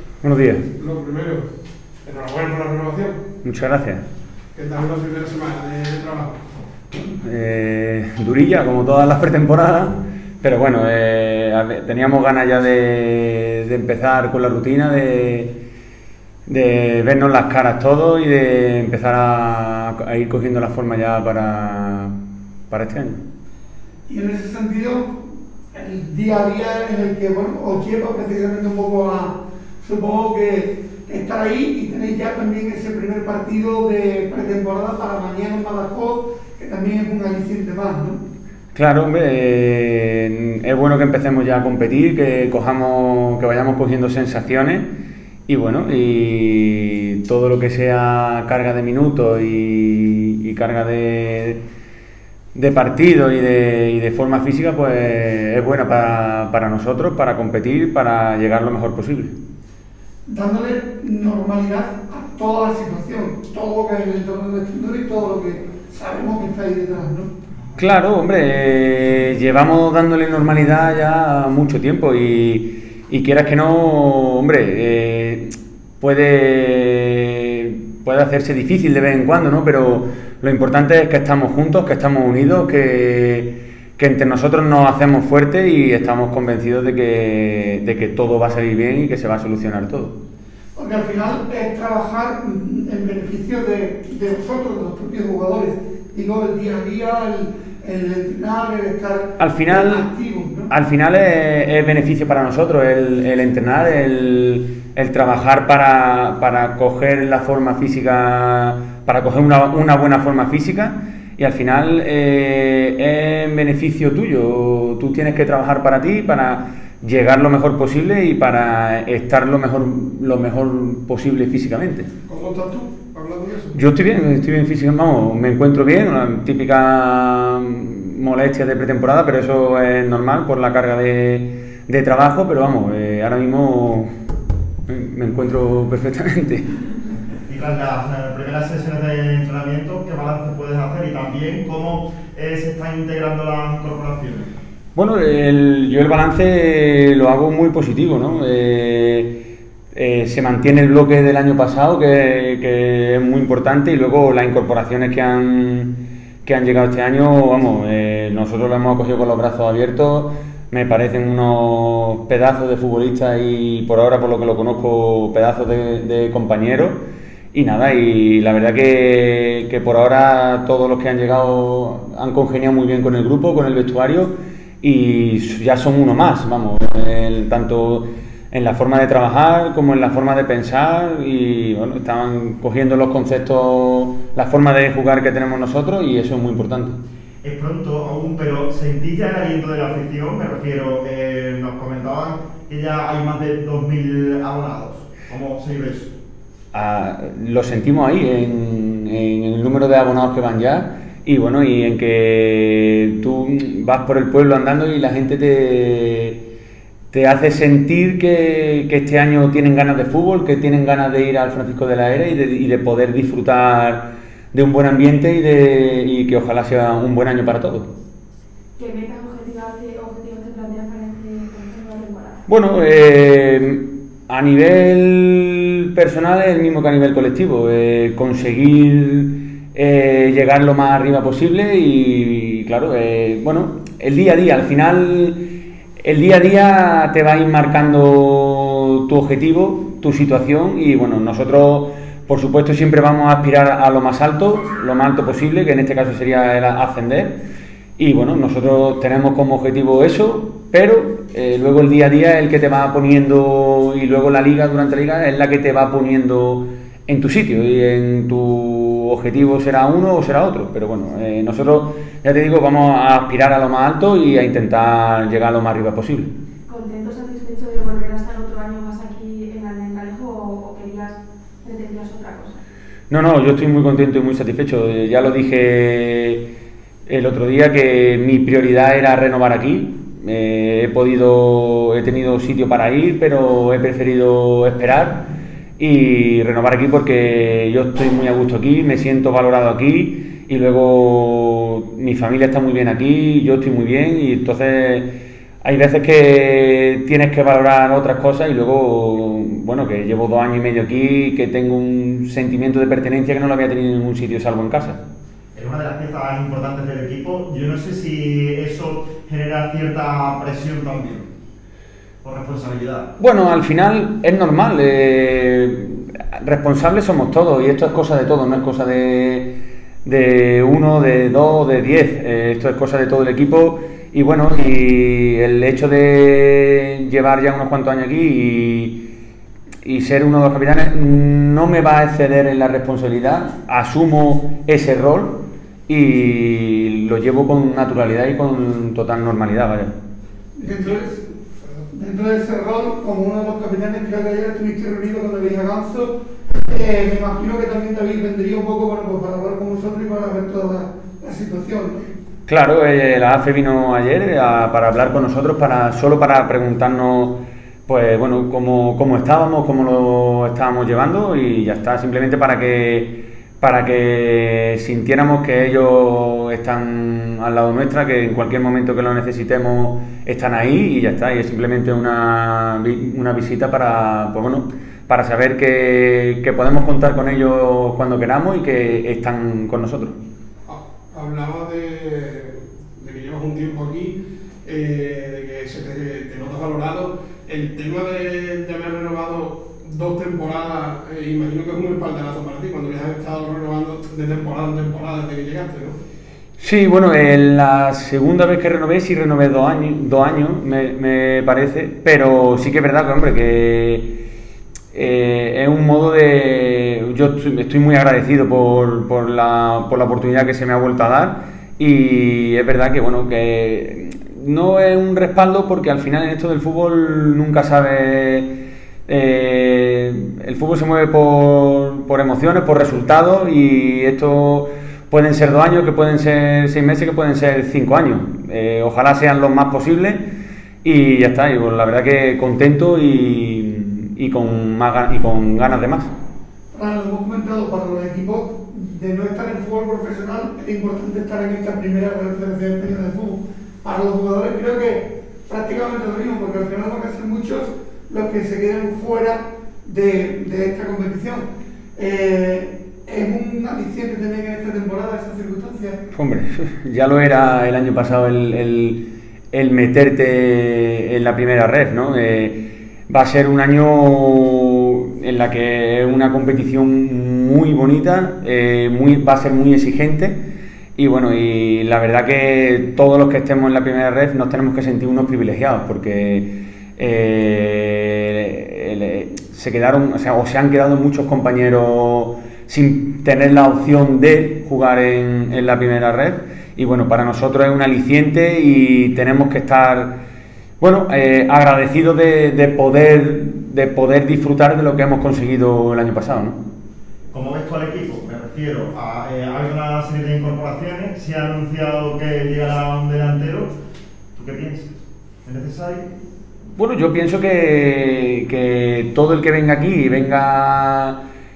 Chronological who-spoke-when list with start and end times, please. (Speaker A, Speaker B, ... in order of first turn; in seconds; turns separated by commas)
Speaker A: 0.2-0.6, Speaker B: 0.8-1.4, Speaker B: 2.0-3.2, Speaker A: 3.4-4.0, Speaker B: 4.5-6.4, Speaker A: 7.0-15.5, Speaker A: 16.5-22.1, Speaker A: 22.7-23.2, Speaker C: 24.1-25.1, Speaker C: 25.7-38.2, Speaker A: 38.7-44.9, Speaker A: 45.5-51.6, Speaker A: 52.5-59.3, Speaker C: 60.2-67.3, Speaker A: 67.8-90.1, Speaker C: 90.8-100.7, Speaker A: 99.4-100.1, Speaker A: 100.7-122.1, Speaker B: 122.3-123.8, Speaker A: 123.7-134.1, Speaker A: 134.9-136.7, Speaker D: 137.5-144.5, Speaker A: 144.9-149.4, Speaker A: 149.9-167.0, Speaker A: 167.5-187.0, Speaker D: 187.4-196.1, Speaker A: 196.7-206.4, Speaker A: 207.1-217.9, Speaker E: 218.8-222.4, Speaker A: 222.5-235.4, Speaker A: 236.0-247.4, Speaker A: 248.0-266.3, Speaker E: 266.7-272.6, Speaker A: 273.1-276.5, Speaker A: 277.1-285.3, Speaker A: 285.8-295.1, Speaker A: 295.6-305.0, Speaker D: 305.6-311.3, Speaker D: 312.2-313.1, Speaker A: 313.2-319.5, Speaker A: 320.1-329.0, Speaker A: 329.8-339.9, Speaker C: 340.6-341.2, Speaker C: 341.9-352.1, Speaker A: 352.5-380.2, Speaker B: 380.7-396.0, Speaker A: 396.6-404.1, Speaker A: 404.9-418.5, Speaker A: 419.1-430.2, Speaker A: 430.8-436.1, Speaker C: 436.7-451.4, Speaker C: 452.0-456.0, Speaker A: 456.1-470.4, Speaker A: 471.0-490.2, Speaker A: 490.8-496.6, Speaker D: 497.3-503.7, Speaker D: 504.4-504.9, Speaker D: 505.4-506.1, Speaker A: 506.8-511.2